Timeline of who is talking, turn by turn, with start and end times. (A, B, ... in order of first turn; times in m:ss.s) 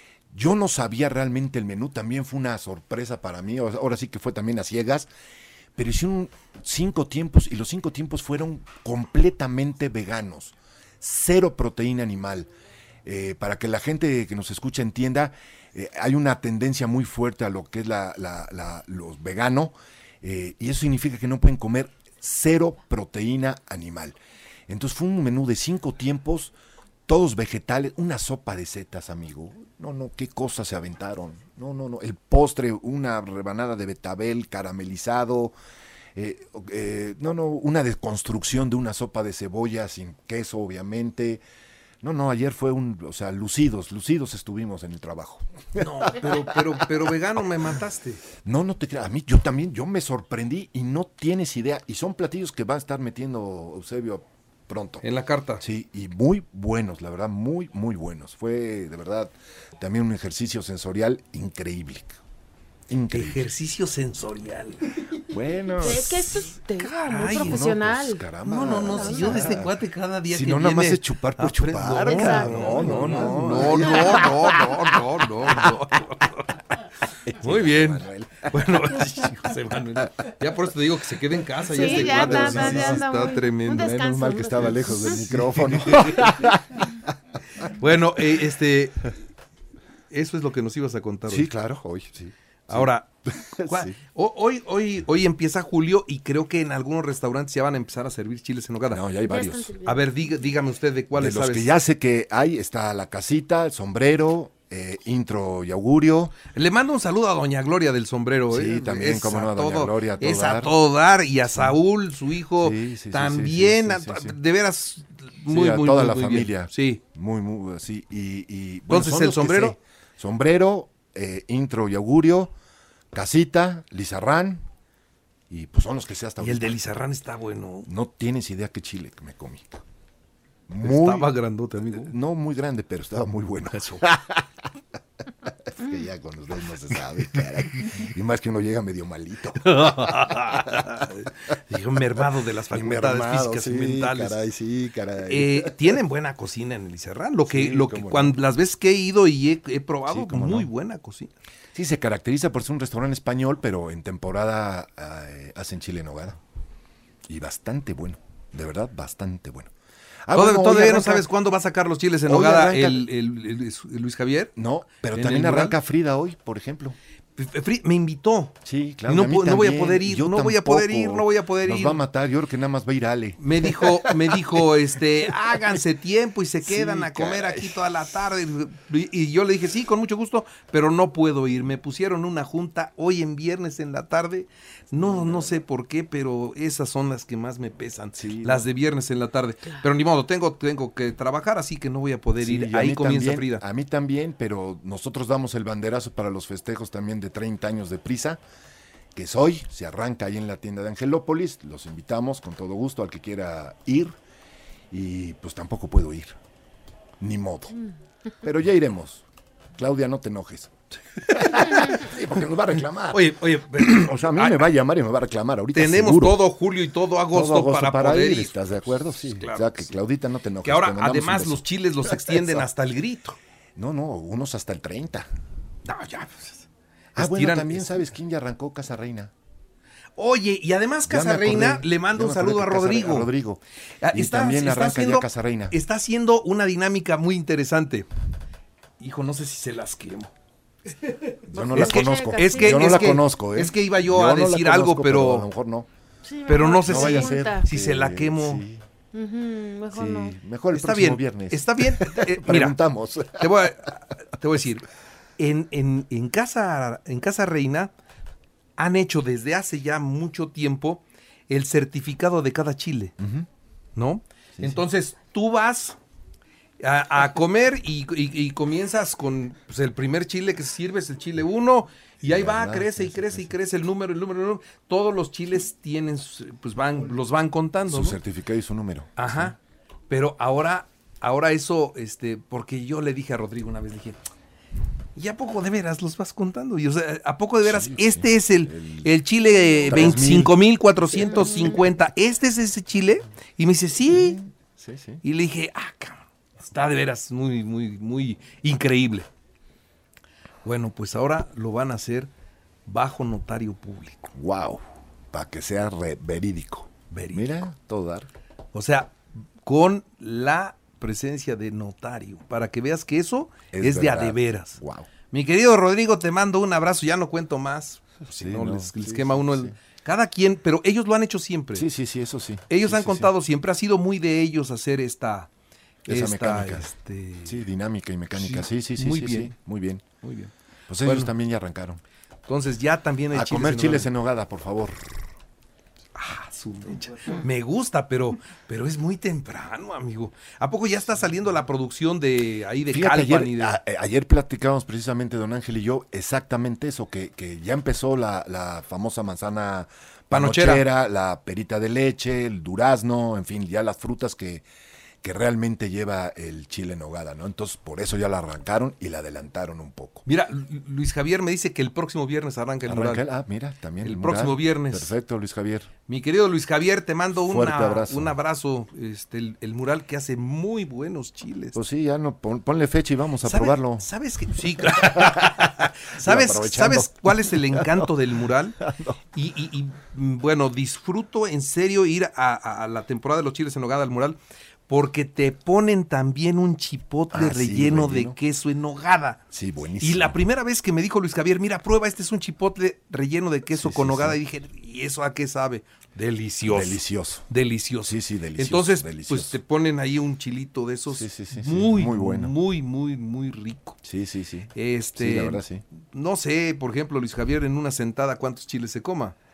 0:00.3-0:05.1 A
0:05.8-0:12.5 A
0:13.0-0:24.2 A
0:24.7-0:26.5 A
0:27.1-0:35.6 A
0:36.2-0:41.4 A
0:42.0-0:46.8 A
0:45.8-0:48.2 B
0:48.4-0:55.0 A
0:55.0-0:55.6 B
0:55.6-1:02.2 A
1:02.9-1:03.5 A
1:03.1-1:04.8 B
1:05.3-1:06.3 A
1:05.8-1:08.3 C
1:05.9-1:07.7 B
1:07.2-1:09.7 A
1:08.4-1:16.7 B
1:08.9-1:09.4 C
1:10.3-1:14.7 A
1:12.0-1:14.0 C
1:17.2-1:19.1 A
1:17.4-1:23.9 B
1:21.7-1:25.2 C
1:21.8-1:23.0 A
1:23.7-1:27.1 A
1:25.0-1:26.3 B
1:27.6-1:29.1 B
1:30.1-1:31.5 B
1:31.3-1:34.0 A
1:32.7-1:33.1 B
1:33.6-1:39.1 B
1:38.9-1:39.7 A
1:39.2-1:40.2 C
1:39.8-1:41.7 B
1:41.2-1:46.4 A
1:46.5-1:57.0 B
1:48.5-1:50.8 A
1:51.5-1:51.8 A
1:52.6-1:54.4 A
1:55.5-2:02.5 A
1:58.9-1:59.8 B
2:03.1-2:04.6 A
2:05.5-2:06.8 A
2:06.4-2:07.9 B
2:07.9-2:09.8 A
2:10.7-2:11.3 A
2:10.8-2:12.1 B
2:12.0-2:14.4 A
2:13.7-2:14.1 B
2:15.5-2:20.4 A
2:19.6-2:24.4 B
2:22.7-2:26.0 A
2:25.2-2:31.3 B
2:27.5-2:28.4 A
2:30.1-2:30.7 A
2:31.7-2:36.4 A
2:37.3-2:39.7 A
2:40.2-2:41.3 A
2:40.4-2:44.5 B
2:42.3-2:43.1 A
2:44.6-2:47.0 A
2:45.1-2:45.8 B
2:47.4-2:48.6 B
2:48.6-2:54.6 A
2:49.1-2:52.0 B
2:53.4-3:13.6 B
2:55.3-2:55.8 A
2:56.6-2:58.0 A
3:05.0-3:05.5 A
3:08.2-3:08.7 A
3:12.4-3:18.4 A
3:19.2-3:24.2 A
3:24.9-3:26.4 A
3:27.2-3:27.8 A
3:28.4-3:29.2 A
3:29.8-3:30.7 A
3:31.2-3:32.0 B
3:31.3-3:36.5 A
3:33.1-3:34.7 B
3:35.7-3:39.9 B
3:37.3-3:42.7 A
3:40.6-3:43.4 B
3:43.8-3:45.3 A
3:45.8-3:48.0 B
3:47.2-3:49.3 A
3:50.2-3:53.3 B
3:51.1-3:55.8 A
3:54.0-3:58.1 B
3:59.0-4:00.3 B
4:01.5-4:05.9 A
4:01.5-4:03.0 C
4:01.7-4:05.5 B
4:06.2-4:07.7 C
4:06.5-4:08.6 B
4:06.8-4:08.8 A
4:09.1-4:10.3 C
4:09.9-4:13.7 A
4:10.7-4:12.8 B
4:13.3-4:14.9 B
4:15.4-4:17.9 B
4:18.8-4:23.2 B
4:23.2-4:23.5 A
4:24.0-4:26.0 B
4:26.8-4:38.2 B
4:32.2-4:33.6 A
4:37.9-4:39.5 A
4:39.2-4:39.6 B
4:40.1-4:44.2 B
4:45.2-4:54.4 B
4:47.6-4:49.2 A
4:49.8-4:50.5 A
4:54.1-4:55.2 A
4:55.2-4:59.3 B
5:00.6-5:02.3 B
5:02.9-5:04.3 B
5:04.3-5:04.8 A
5:05.3-5:08.3 A
5:07.1-5:07.5 B
5:08.7-5:09.1 B
5:09.6-5:14.8 B
5:13.7-5:15.1 A
5:15.3-5:21.9 B
5:18.3-5:19.8 A
5:21.8-5:23.3 A
5:22.7-5:25.5 B
5:26.1-5:26.9 A
5:26.1-5:27.6 B
5:27.4-5:30.0 A
5:28.3-5:29.5 B
5:30.2-5:31.3 B
5:30.9-5:32.0 A
5:32.5-5:34.1 B
5:33.3-5:35.0 A
5:36.2-5:43.8 B
5:42.9-5:54.6 A
5:50.3-5:50.9 B
5:55.2-6:00.3 A
6:00.3-6:03.2 B
6:02.9-6:05.9 A
6:04.0-6:05.1 B
6:06.1-6:11.8 B
6:07.4-6:08.4 A
6:11.7-6:14.1 A
6:13.4-6:18.8 B
6:14.9-6:18.1 A
6:18.8-6:19.2 A
6:19.3-6:29.4 B
6:27.3-6:28.4 A
6:29.5-6:30.4 A
6:30.0-6:44.0 B
6:33.7-6:34.4 A
6:36.6-6:37.5 A
6:38.0-6:39.6 A
6:41.1-6:42.6 A
6:44.0-6:45.8 A
6:44.7-6:49.4 B